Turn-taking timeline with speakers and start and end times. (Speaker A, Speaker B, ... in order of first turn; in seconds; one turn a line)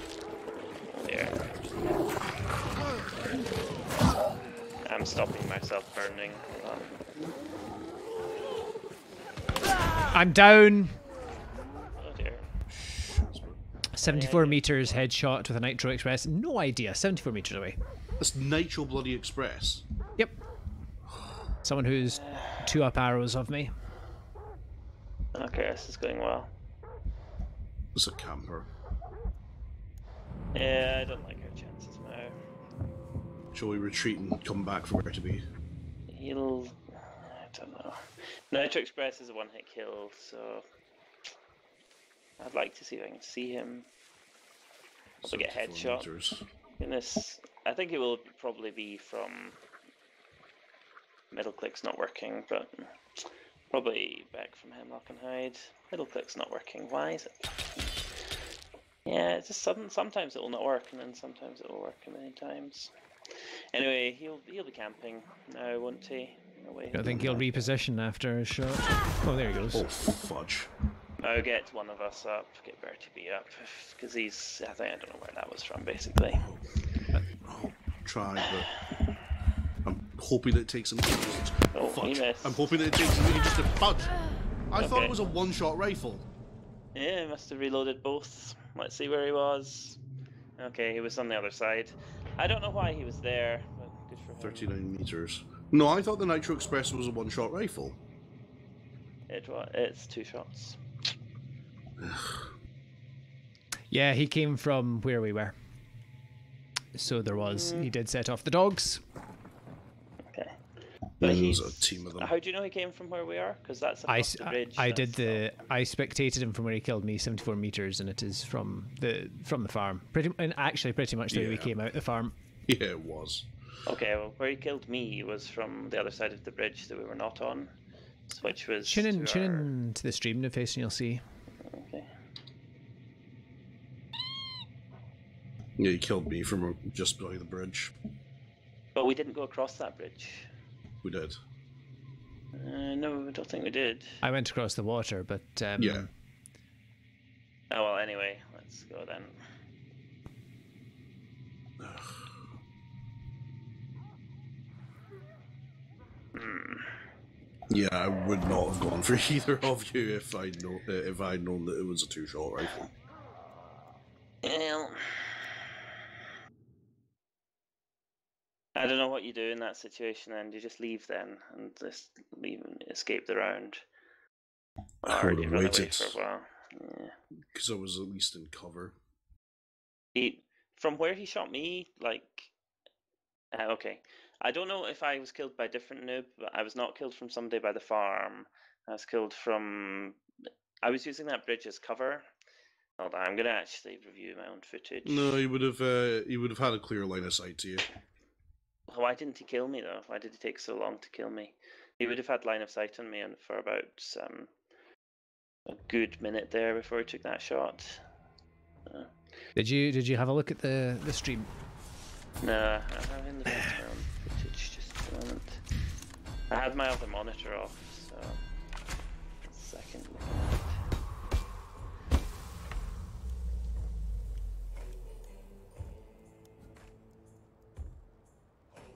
Speaker A: 0.9-1.4
Speaker A: 4.8-7.0
Speaker B: 10.1-11.0
Speaker A: 12.0-12.5
Speaker C: 12.7-13.6
Speaker B: 13.9-17.8
Speaker A: 14.0-14.7
Speaker C: 18.2-19.8
Speaker B: 21.6-23.7
Speaker A: 22.0-22.8
Speaker A: 25.3-26.5
Speaker C: 27.9-28.7
Speaker A: 30.5-32.3
Speaker C: 33.5-35.4
Speaker A: 36.1-40.6
Speaker A: 42.4-43.9
Speaker C: 45.2-46.5
Speaker A: 45.3-46.1
Speaker A: 46.8-49.6
Speaker A: 51.3-58.0
Speaker A: 59.0-62.9
Speaker A: 63.7-67.7
Speaker B: 66.9-69.9
Speaker C: 67.0-67.4
Speaker C: 69.7-70.7
Speaker A: 71.2-76.5
Speaker C: 77.4-78.7
Speaker A: 78.5-79.0
Speaker C: 79.8-84.2
Speaker A: 81.8-82.7
Speaker C: 84.7-86.2
Speaker A: 84.8-85.3
Speaker A: 87.0-90.0
Speaker A: 90.6-94.7
Speaker C: 94.4-98.0
Speaker A: 99.3-100.8
Speaker C: 102.0-102.5
Speaker B: 103.9-105.5
Speaker B: 106.9-109.0
Speaker A: 107.3-107.9
Speaker A: 110.3-110.6
Speaker C: 111.2-112.3
Speaker A: 111.2-115.5
Speaker B: 114.1-122.3
Speaker C: 121.3-121.8
Speaker C: 122.7-123.5
Speaker A: 123.9-127.7
Speaker A: 128.3-129.7
Speaker B: 128.8-131.2
Speaker A: 131.6-132.1
Speaker C: 135.8-137.9
Speaker A: 138.9-140.5
Speaker C: 141.0-141.4
Speaker A: 142.5-144.2
Speaker B: 144.2-146.1
Speaker C: 145.8-146.1
Speaker A: 147.7-149.4
Speaker C: 151.8-152.2
Speaker A: 156.3-157.0
Speaker C: 157.7-162.9
Speaker A: 164.4-165.6
Speaker A: 168.8-173.8
Speaker C: 175.0-176.2
Speaker A: 175.1-177.1
Speaker C: 177.5-179.0
Speaker A: 180.2-182.5
Speaker A: 183.5-190.2
Speaker A: 190.8-192.2
Speaker A: 193.0-195.4
Speaker C: 195.1-197.8
Speaker A: 198.9-204.5
Speaker A: 205.7-208.0
Speaker A: 208.9-209.1
Speaker B: 209.6-211.5
Speaker A: 212.4-215.6
Speaker A: 216.5-218.4
Speaker A: 219.4-220.8